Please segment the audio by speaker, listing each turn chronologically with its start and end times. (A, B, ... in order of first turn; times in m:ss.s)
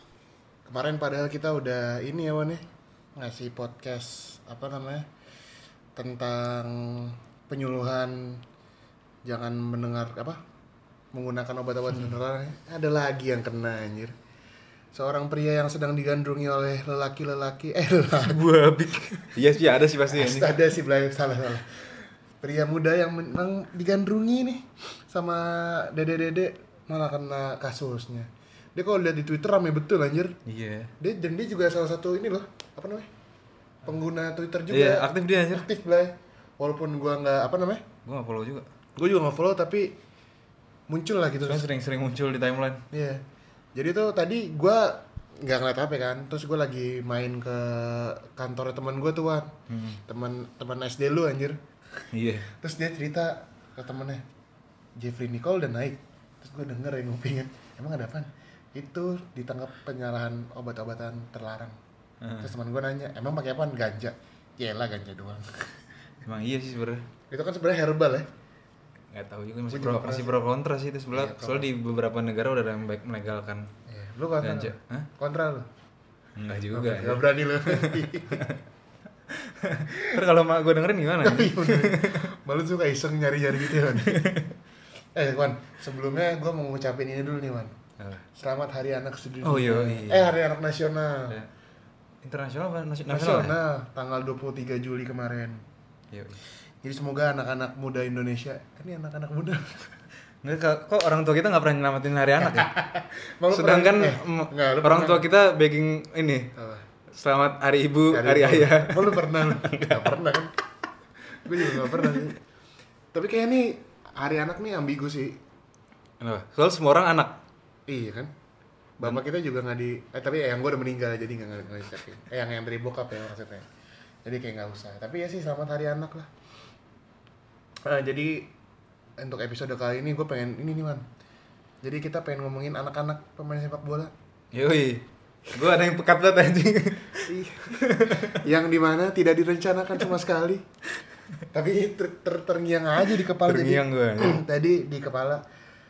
0:00.6-0:02.6 A
0:03.2-0:05.0 A
0:06.0-0:08.4 A
0:09.2-0:10.4 A
0:11.1-0:14.1 A
0:14.9-0:18.4 A
0:18.2-0:20.6 B
0:19.1-0:19.4 A
0:20.0-0:30.4 A
0:30.4-0:30.9 B
0:31.0-0:33.1 A
0:33.8-0:37.8 A
0:34.7-0:35.6 B
0:38.0-0:38.7 B
0:39.0-0:40.0 A
0:40.9-0:41.6 A
0:41.4-0:42.8 B
0:42.9-0:43.2 A
0:43.7-0:49.5 A
0:49.7-0:50.0 B
0:50.1-0:51.6 A
0:52.1-0:52.5 B
0:52.5-0:54.2 A
0:55.0-1:01.8 A
1:02.2-1:02.5 B
1:02.4-1:05.7 A
1:06.2-1:07.1 B
1:07.3-1:08.3 A
1:09.1-1:13.7 B
1:09.7-1:10.4 A
1:11.1-1:11.7 A
1:13.9-1:15.7 A
1:14.4-1:15.1 B
1:16.4-1:18.6 B
1:16.7-1:18.5 A
1:19.3-1:22.3 B
1:19.9-1:20.2 A
1:21.2-1:24.2 A
1:23.7-1:24.5 B
1:25.1-1:27.7 A
1:28.0-1:28.2 B
1:28.3-1:31.4 A
1:29.4-1:30.3 B
1:32.2-1:33.6 B
1:33.1-1:35.6 A
1:36.1-1:36.4 B
1:36.8-1:39.9 A
1:40.4-1:42.7 B
1:42.4-1:45.2 A
1:43.5-1:46.5 B
1:46.6-1:46.8 A
1:47.1-1:50.2 B
1:48.1-1:50.5 A
1:51.4-1:52.4 A
1:51.7-1:52.2 B
1:53.1-1:55.4 A
1:56.2-1:57.4 B
1:57.9-1:58.3 A
1:59.0-2:03.6 A
2:04.2-2:06.3 A
2:07.8-2:08.5 A
2:09.2-2:11.0 A
2:11.8-2:14.1 A
2:14.5-2:18.4 B
2:17.2-2:20.6 A
2:21.5-2:25.4 A
2:23.0-2:24.4 B